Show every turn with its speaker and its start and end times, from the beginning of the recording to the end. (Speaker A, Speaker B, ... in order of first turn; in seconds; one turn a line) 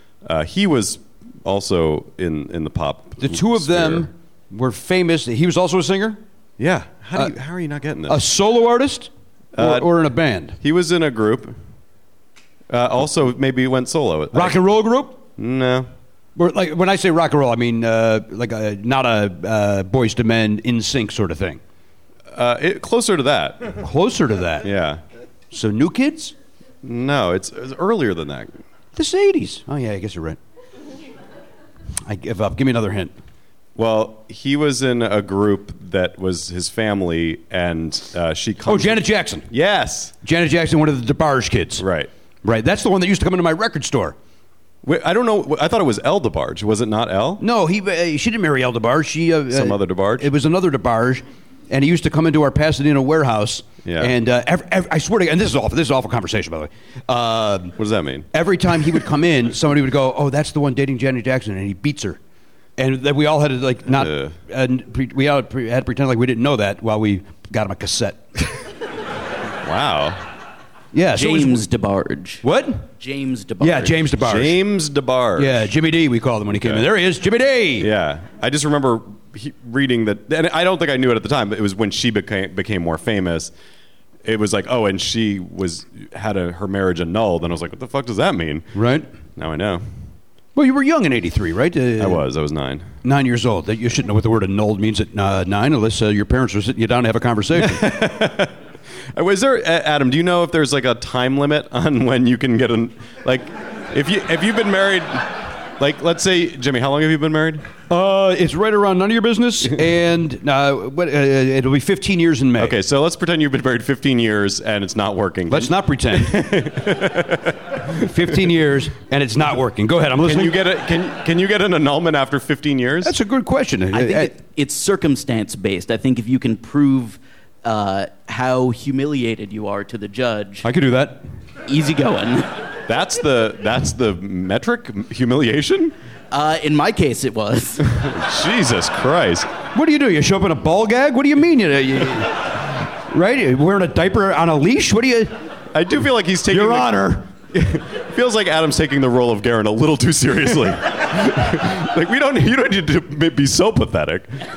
Speaker A: 0.2-4.1
Speaker B: 3.2-6.2
Speaker A: 6.6-8.2
Speaker B: 8.1-10.6
Speaker A: 9.6-9.9
Speaker A: 10.6-11.6
Speaker A: 12.7-14.6
Speaker B: 14.3-15.2
Speaker A: 15.4-15.9
Speaker B: 16.4-21.6
Speaker A: 22.3-23.8
Speaker B: 23.8-24.7
Speaker A: 24.6-25.0
Speaker B: 25.5-26.3
Speaker A: 26.8-28.6
Speaker B: 29.0-30.4
Speaker B: 32.0-33.1
Speaker A: 33.8-40.1
Speaker B: 38.7-39.5
Speaker B: 40.2-41.9
Speaker A: 41.8-42.1
Speaker B: 42.4-44.2
Speaker A: 44.8-47.4
Speaker B: 47.4-57.8
Speaker A: 49.5-50.3
Speaker A: 53.8-54.2
Speaker A: 57.8-58.3
Speaker B: 58.3-62.2
Speaker B: 62.8-68.2
Speaker A: 63.9-64.3
Speaker A: 69.6-70.2
Speaker B: 70.9-71.7
Speaker C: 71.1-72.4
Speaker B: 72.4-72.9
Speaker C: 73.0-74.0
Speaker B: 73.6-74.6
Speaker A: 74.2-75.7
Speaker B: 75.4-77.9
Speaker A: 76.6-76.8
Speaker A: 77.8-83.5
Speaker A: 84.2-88.8
Speaker B: 88.7-89.1
Speaker A: 89.4-89.8
Speaker B: 90.5-92.2
Speaker A: 92.0-92.9
Speaker B: 93.0-97.9
Speaker A: 97.6-98.5
Speaker A: 99.2-107.7
Speaker B: 107.9-112.8
Speaker A: 112.6-118.0
Speaker B: 115.5-116.7
Speaker B: 117.9-120.6
Speaker A: 120.2-123.1
Speaker B: 123.0-124.3
Speaker C: 123.9-130.7
Speaker B: 130.6-131.2
Speaker C: 131.7-132.5
Speaker A: 132.9-135.9
Speaker C: 136.3-137.9
Speaker A: 138.0-139.5
Speaker B: 139.7-145.3
Speaker A: 145.7-154.3
Speaker B: 146.5-147.3